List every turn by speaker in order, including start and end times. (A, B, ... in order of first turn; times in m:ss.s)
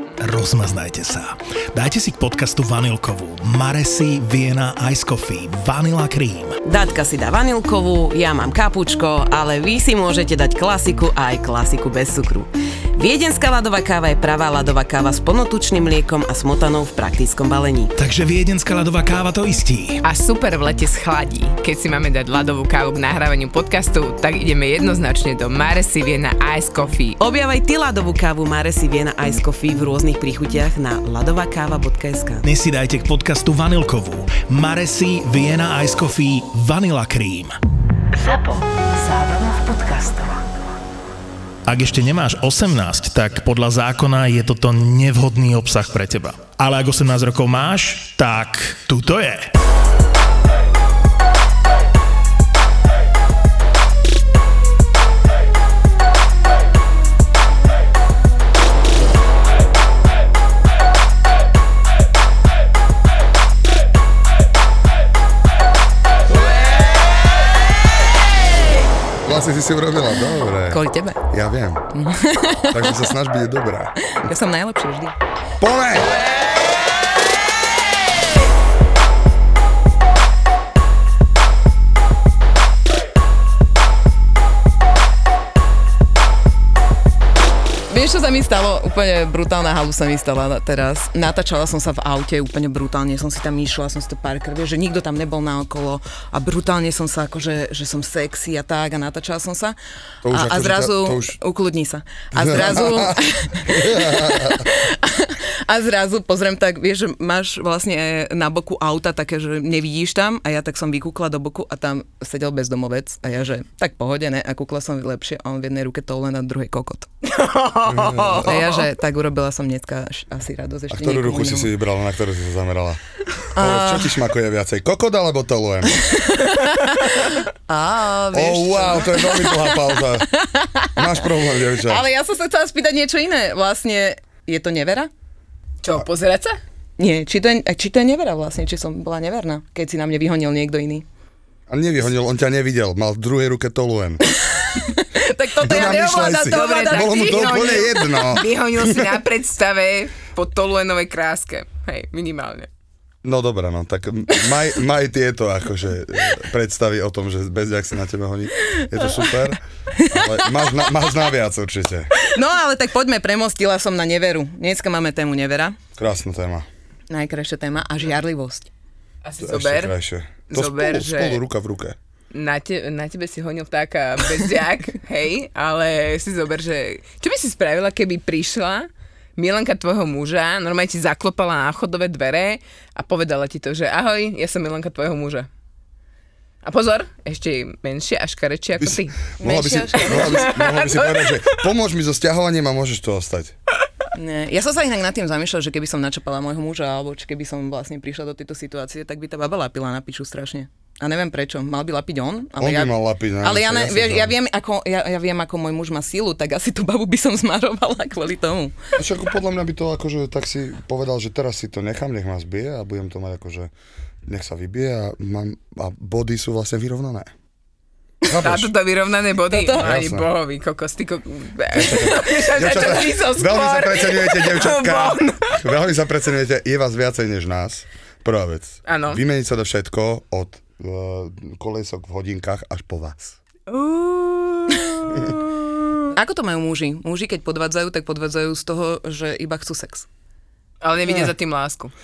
0:00.2-0:06.6 A
0:06.6-0:17.9 B
0:18.0-0:20.0 A
0:20.0-0:27.2 C
0:27.2-0:32.4 B
0:32.4-0:37.6 A
0:38.1-0:40.5 B
0:41.7-0:49.5 A
1:09.2-1:11.8 D
1:10.7-1:11.2 E
1:11.9-1:13.1 E
1:12.7-1:14.0 D
1:14.0-1:15.1 E
1:15.6-1:16.1 D
1:27.9-1:39.7 E
1:40.2-1:41.4 D
1:40.3-1:57.1 E
1:42.3-1:44.6 D
1:57.2-1:58.8 C
1:57.9-1:58.6 D
1:58.3-2:01.7 E
2:00.9-2:03.0 D
2:03.6-2:04.1 E
2:03.6-2:06.0 D
2:06.1-2:11.2 E
2:08.3-2:10.3 D
2:11.0-2:12.0 D
2:11.8-2:15.1 E
2:15.8-2:16.6 C
2:17.0-2:21.0 E
2:21.7-2:24.2 D
2:24.5-2:28.2 E
2:25.6-2:29.2 D
2:25.7-2:32.7 C
2:33.2-2:42.2 D
2:42.3-2:45.8 E
2:46.0-2:46.7 D
2:47.1-2:48.7 E
2:49.2-2:49.9 C
2:49.4-2:52.0 D
2:50.4-2:51.4 C
2:52.3-3:05.5 C
3:06.6-3:09.3 C
3:08.8-3:13.5 D
3:09.4-3:10.4 E
3:10.0-3:11.6 C
3:14.1-3:28.7 E
3:22.6-3:24.3 D
3:29.0-3:33.7 D
3:34.2-3:37.3 D
3:38.2-3:38.7 D
3:38.4-3:45.7 C
3:39.5-3:39.8 E
3:39.7-3:40.3 D
3:41.7-3:53.4 D
3:48.8-3:49.2 C
3:53.7-3:56.1 C
3:56.1-4:00.0 E
4:00.8-4:01.9 C